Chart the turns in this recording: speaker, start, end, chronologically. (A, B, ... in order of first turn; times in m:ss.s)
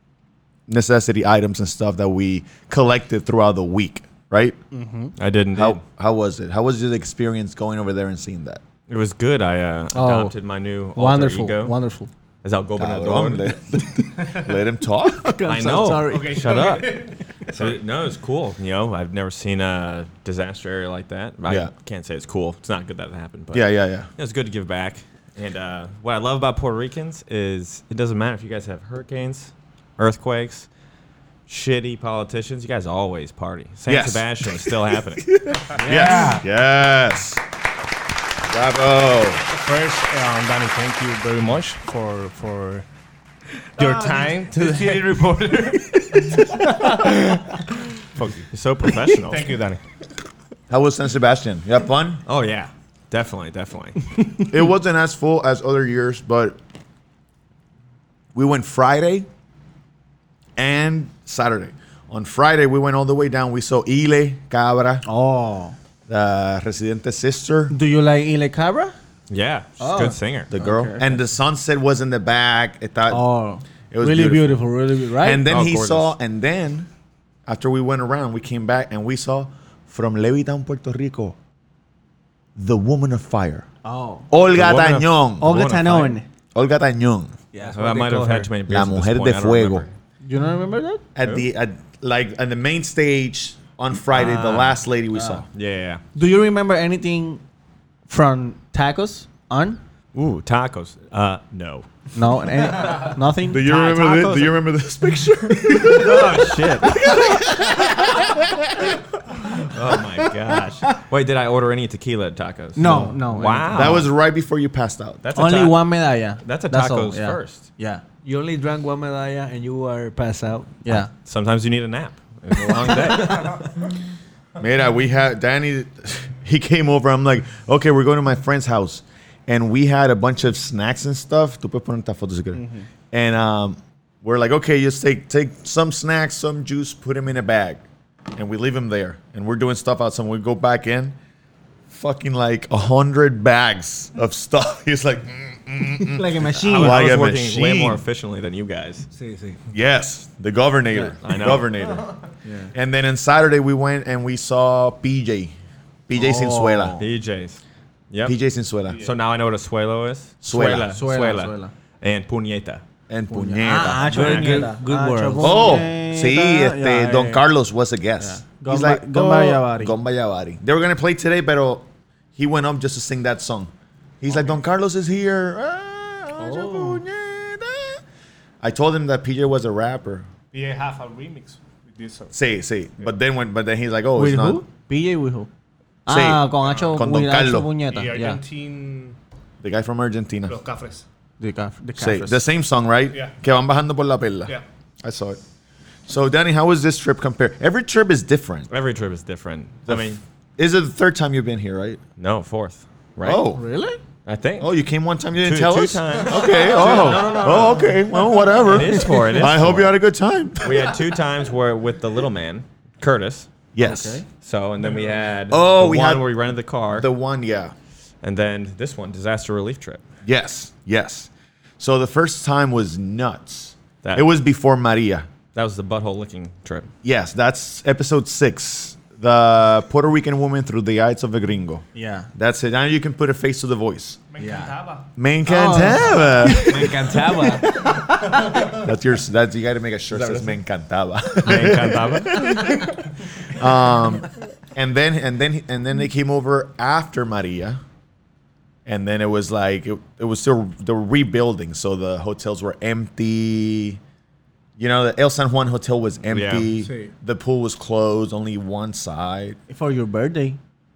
0:00.7-0:04.6 A
0:04.7-0:05.1 B
0:05.2-0:05.8 C
0:05.5-0:08.6 A
0:08.9-0:11.8 C
0:09.9-0:10.3 B
0:10.9-0:12.1 B
0:12.4-0:13.5 C
0:12.8-0:15.4 A
0:15.2-0:16.9 B
0:15.4-0:30.7 C
0:16.0-0:17.2 D
0:21.4-0:21.7 A
0:23.5-0:24.1 A
0:31.5-0:35.3 C
0:33.9-0:37.4 A
0:35.8-0:36.4 E
0:35.8-0:36.4 B
0:38.4-0:39.5 A
0:39.5-0:42.8 D
0:43.8-0:45.2 D
0:43.8-0:47.1 E
0:48.5-0:49.6 C
0:49.2-0:49.8 D
0:50.7-0:52.2 A
0:52.2-0:54.1 C
0:54.4-0:56.6 A
0:58.3-0:59.3 A
1:00.6-1:05.0 A
1:05.0-1:05.8 B
1:06.1-1:07.8 A
1:07.7-1:08.9 B
1:09.3-1:10.5 C
1:09.8-1:11.2 B
1:10.5-1:13.2 A
1:13.1-1:15.4 B
1:13.9-1:14.6 A
1:15.2-1:16.9 A
1:15.5-1:16.1 C
1:17.4-1:21.4 A
1:22.6-1:23.7 A
1:23.8-1:24.3 B
1:24.3-1:25.6 A
1:24.5-1:26.2 C
1:25.4-1:26.2 B
1:26.5-1:27.4 A
1:27.5-1:28.5 E
1:27.8-1:29.9 C
1:28.7-1:29.9 A
1:30.2-1:31.0 B
1:31.1-1:35.5 A
1:31.2-1:31.5 C
1:34.1-1:34.8 C
1:35.5-1:36.0 C
1:36.1-1:37.4 B
1:38.1-1:39.8 B
1:40.1-1:41.9 C
1:42.1-1:44.6 B
1:42.8-1:49.0 A
1:45.7-1:47.2 C
1:47.1-1:47.4 B
1:49.6-1:54.1 C
1:52.8-1:54.0 B
1:52.8-1:53.2 E
1:53.7-1:55.2 A
1:55.2-1:55.8 C
1:55.3-1:58.0 B
1:56.4-1:57.7 C
1:58.2-2:01.0 E
2:00.8-2:01.1 B
2:01.2-2:03.6 C
2:02.9-2:03.6 E
2:03.1-2:03.4 B
2:04.6-2:17.8 A
2:12.5-2:12.8 B
2:18.3-2:21.2 A
2:21.9-2:28.0 A
2:26.0-2:27.2 B
2:26.5-2:29.1 C
2:29.1-2:29.6 E
2:29.7-2:32.1 A
2:31.2-2:31.7 C
2:32.4-2:32.7 B
2:32.7-2:35.5 A
2:36.1-2:37.0 A
2:36.1-2:37.0 B
2:37.0-2:37.6 C
2:38.1-2:38.4 C
2:38.2-2:39.1 A
2:39.0-2:42.8 C
2:40.4-2:40.9 A
2:40.8-2:41.7 B
2:43.1-2:44.7 A
2:43.3-2:47.4 B
2:44.1-2:45.8 E
2:45.4-2:51.8 A
2:48.2-2:49.9 B
2:52.4-2:58.0 A
2:56.5-2:57.0 B
2:58.6-3:00.3 A
3:00.5-3:02.3 D
3:02.3-3:04.6 A
3:04.2-3:05.5 B
3:06.0-3:08.4 B
3:06.1-3:07.8 A
3:06.6-3:07.0 D
3:07.9-3:09.2 D
3:09.6-3:10.6 A
3:10.5-3:11.0 D
3:11.4-3:12.4 B
3:12.0-3:15.4 A
3:16.0-3:18.7 A
3:18.7-3:20.2 C
3:19.9-3:22.0 A
3:22.2-3:23.4 C
3:23.2-3:23.6 A
3:23.5-3:24.0 B
3:24.2-3:24.7 C
3:24.6-3:31.0 A
3:25.4-3:30.0 C
3:30.6-3:33.6 C
3:33.7-3:34.2 A
3:33.8-3:34.2 B
3:34.3-3:37.1 C
3:35.5-3:36.4 A
3:36.9-3:37.7 A
3:38.2-3:40.0 C
3:40.2-3:45.3 A
3:45.5-3:46.9 C
3:47.0-3:54.2 A
3:51.9-3:52.3 B
3:54.3-3:55.1 D
3:54.4-3:54.7 B
3:55.2-3:57.0 A
3:55.4-3:58.6 B
3:56.6-3:57.9 E
3:57.8-4:07.8 A
4:00.2-4:00.5 B
4:01.4-4:02.6 C
4:08.8-4:14.0 A
4:14.8-4:19.6 A
4:16.3-4:16.7 C
4:16.8-4:17.1 B
4:19.7-4:20.6 B